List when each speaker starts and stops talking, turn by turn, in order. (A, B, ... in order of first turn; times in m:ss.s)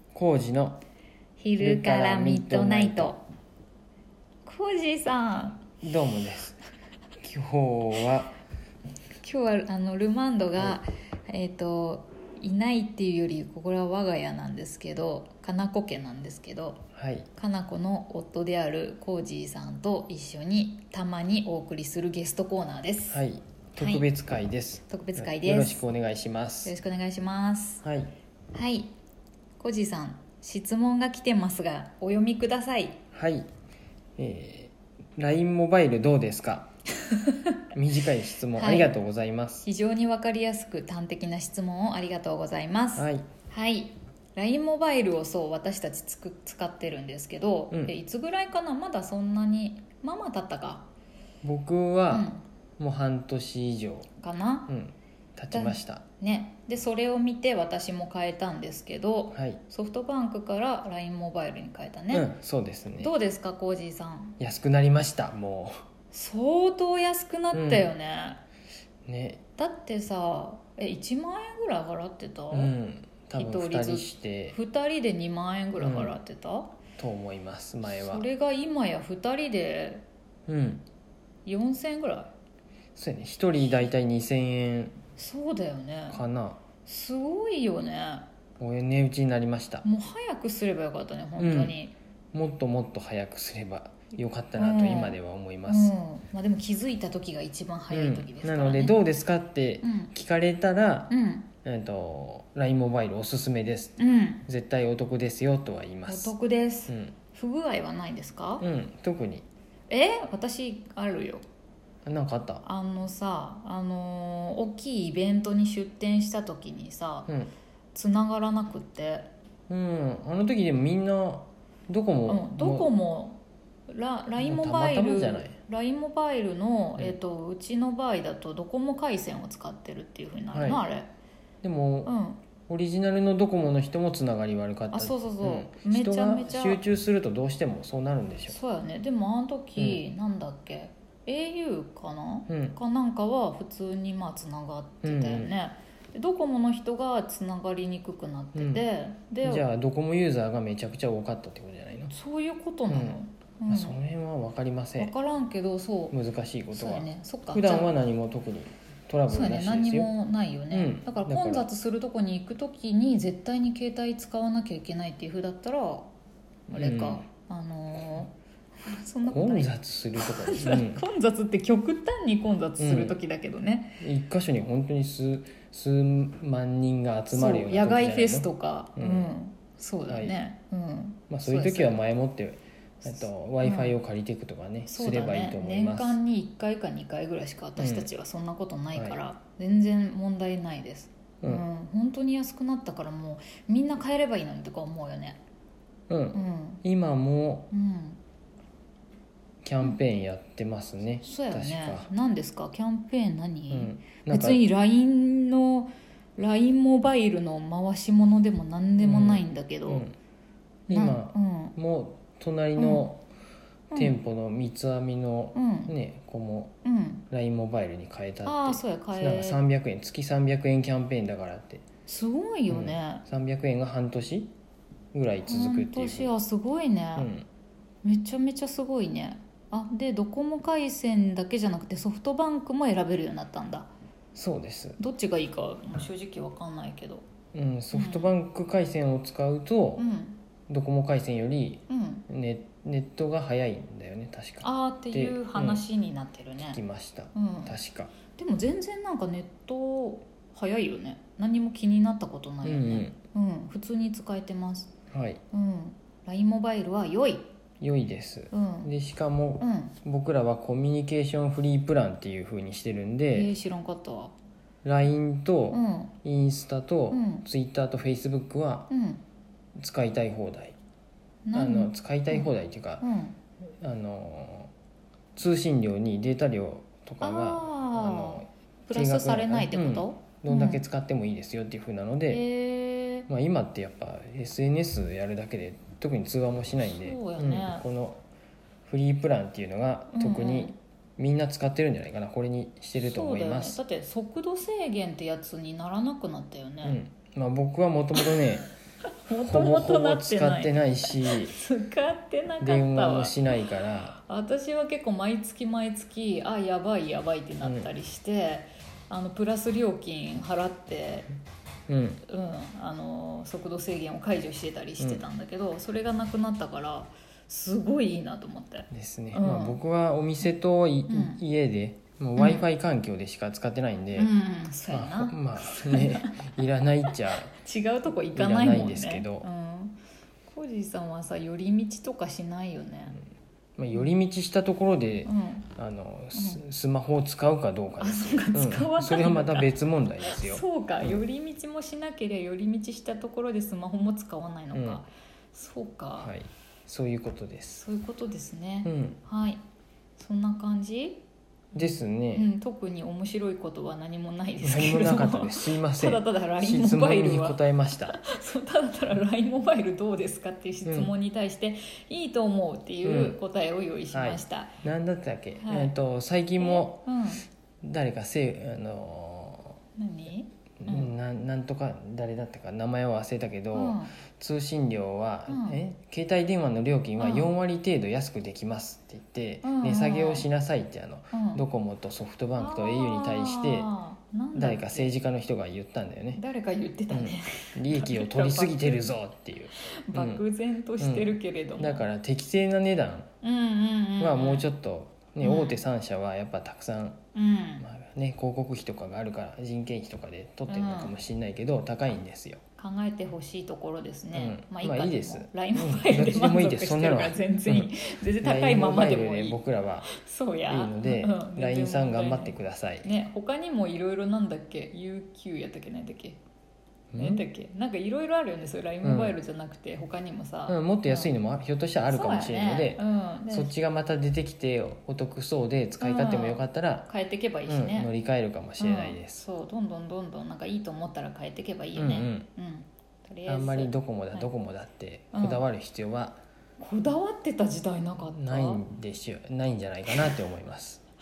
0:00.1-0:00.8 A
0:01.4-0:03.2 B
0:01.6-0:03.2 A
0:04.4-0:05.6 B
0:05.8-0:06.6 A
0:07.2-0:08.4 A
0:09.2-0:23.2 B
0:17.0-0:17.3 A
0:23.1-0:26.7 A
0:23.8-0:24.0 B
0:24.9-0:25.8 B
0:26.6-0:27.8 B
0:27.8-0:28.1 A
0:28.5-0:28.9 B
0:29.6-0:33.0 B
0:33.1-0:33.5 A
0:34.2-0:36.7 A
0:37.7-0:39.7 A
0:38.5-0:38.9 B
0:39.6-0:50.9 B
0:43.0-0:43.3 A
0:51.4-0:54.1 A
0:52.1-0:52.4 B
0:54.2-0:54.7 B
0:54.7-0:56.0 A
0:55.5-1:02.3 B
0:59.3-0:59.6 A
1:02.1-1:03.1 A
1:03.0-1:04.4 B
1:04.4-1:05.8 A
1:06.1-1:08.4 B
1:07.5-1:07.9 A
1:09.1-1:09.4 A
1:09.6-1:12.7 B
1:12.5-1:14.6 A
1:13.4-1:16.7 B
1:15.8-1:16.2 A
1:17.0-1:18.3 A
1:17.9-1:20.0 B
1:20.5-1:20.8 A
1:21.5-1:22.3 B
1:23.0-1:25.0 A
1:25.2-1:26.2 B
1:26.1-1:26.6 A
1:26.8-1:28.3 B
1:28.6-1:29.8 A
1:29.8-1:31.9 B
1:31.4-1:31.8 A
1:32.3-1:36.0 A
1:34.6-1:39.0 B
1:37.9-1:46.3 A
1:39.8-1:40.1 B
1:41.1-1:41.5 B
1:44.0-1:44.4 B
1:46.1-1:48.6 B
1:46.9-1:47.2 A
1:48.6-1:49.5 A
1:49.9-1:51.4 B
1:52.0-1:52.6 A
1:52.6-1:57.3 B
1:57.9-1:59.3 B
1:59.7-2:02.9 A
2:02.3-2:11.1 B
2:04.4-2:05.6 A
2:10.5-2:10.9 A
2:11.6-2:12.1 A
2:12.0-2:12.4 B
2:12.7-2:18.6 A
2:14.9-2:16.8 B
2:18.5-2:29.6 B
2:22.5-2:22.8 A
2:25.0-2:25.5 A
2:28.6-2:28.8 A
2:29.4-2:32.1 A
2:32.1-2:34.0 B
2:32.9-2:35.1 A
2:35.0-2:36.2 B
2:36.1-2:40.1 A
2:36.7-2:37.9 B
2:39.3-2:46.1 B
2:40.7-2:41.7 A
2:46.7-2:47.2 A
2:46.7-2:48.3 B
2:48.8-2:54.0 B
2:49.3-2:51.0 A
2:52.8-2:53.2 A
2:54.0-2:59.3 A
2:57.3-3:02.0 B
3:00.1-3:00.4 A
3:01.3-3:06.2 A
3:03.0-3:04.0 B
3:04.9-3:15.4 B
3:07.8-3:08.1 A
3:11.4-3:11.7 A
3:16.1-3:17.7 A
3:16.3-3:16.8 B
3:17.7-3:18.2 B
3:19.6-3:22.1 A
3:21.2-3:30.1 B
3:23.7-3:24.6 A
3:29.0-3:30.2 A
3:30.9-3:31.7 B
3:30.9-3:33.2 A
3:32.8-3:33.0 B
3:33.9-3:36.7 A
3:35.6-3:35.9 B
3:36.8-3:37.2 B
3:37.3-3:41.8 A
3:38.4-3:39.6 B
3:42.1-3:43.2 B
3:42.7-3:44.5 A
3:45.1-3:46.3 A
3:45.5-3:47.3 B
3:47.2-3:47.5 A
3:48.0-3:53.9 B
3:54.4-3:55.0 A
3:55.0-3:57.2 B
3:57.5-4:00.1 A
3:57.9-3:58.3 B
4:00.0-4:00.4 B
4:00.7-4:05.8 A
4:01.9-4:02.2 B
4:04.6-4:06.8 B
4:06.6-4:08.1 A
4:07.3-4:07.7 B
4:08.3-4:14.9 B
4:12.6-4:13.2 A
4:15.1-4:15.4 A
4:15.5-4:17.4 B
4:17.8-4:23.5 A
4:18.5-4:18.9 B
4:19.6-4:20.0 B
4:23.3-4:24.3 B
4:24.8-4:28.9 A
4:25.7-4:26.1 B
4:27.1-4:27.4 B
4:28.9-4:29.2 B
4:29.8-4:30.8 A
4:31.4-4:33.4 B
4:31.5-4:33.1 A
4:33.8-4:34.7 A
4:35.4-4:42.4 A
4:37.2-4:40.8 B
4:42.3-4:43.3 B
4:43.3-4:48.2 A
4:46.8-4:47.9 B
4:48.9-4:53.8 A
4:50.1-4:50.8 B
4:53.0-4:57.0 B
4:56.8-4:58.7 A
4:59.2-5:03.4 B
4:59.3-5:01.6 A
5:02.6-5:04.2 A
5:04.2-5:11.3 B
5:07.6-5:07.9 A
5:11.9-5:12.2 A
5:12.3-5:19.8 B
5:18.9-5:24.3 A
5:21.1-5:21.4 B
5:22.4-5:22.6 B
5:24.2-5:26.6 B
5:24.9-5:27.5 A
5:27.3-5:33.2 B
5:28.4-5:29.5 A
5:33.8-5:41.2 A
5:35.2-5:35.7 B
5:36.3-5:36.6 B
5:38.0-5:39.7 B
5:40.2-5:46.3 B
5:44.7-5:45.0 A
5:46.2-5:47.8 A
5:47.8-5:49.6 B
5:48.8-5:49.2 A
5:50.2-5:51.2 B
5:51.7-5:52.5 A
5:52.3-6:04.8 B
5:54.6-5:58.2 A
6:00.8-6:01.1 A
6:03.0-6:03.4 A
6:04.1-6:07.1 A
6:05.6-6:05.9 B
6:06.6-6:07.4 B
6:07.8-6:09.8 A
6:10.0-6:11.1 B
6:10.8-6:23.9 A
6:13.7-6:14.1 B
6:15.5-6:15.8 B
6:17.2-6:17.5 B
6:19.6-6:20.5 B
6:21.3-6:21.6 B
6:22.6-6:25.2 B
6:24.6-6:26.4 A
6:26.4-6:29.1 B
6:27.1-6:30.4 A
6:29.8-6:32.0 B
6:31.0-6:33.3 A
6:33.4-6:34.7 B
6:34.2-6:37.2 A
6:35.4-6:35.8 B
6:37.4-6:37.8 B
6:37.8-6:42.6 A
6:40.7-6:41.1 B
6:42.8-6:56.4 B
6:44.3-6:50.1 A
6:50.7-6:53.1 A
6:57.1-6:57.4 A
6:57.2-7:01.3 B
6:59.0-6:59.4 A
7:00.7-7:07.1 A
7:02.1-7:03.7 B
7:06.0-7:08.1 B
7:07.7-7:09.4 A
7:08.8-7:14.5 B
7:12.0-7:12.5 A
7:13.5-7:16.4 A
7:15.3-7:15.6 B
7:16.8-7:18.8 B
7:18.3-7:21.0 A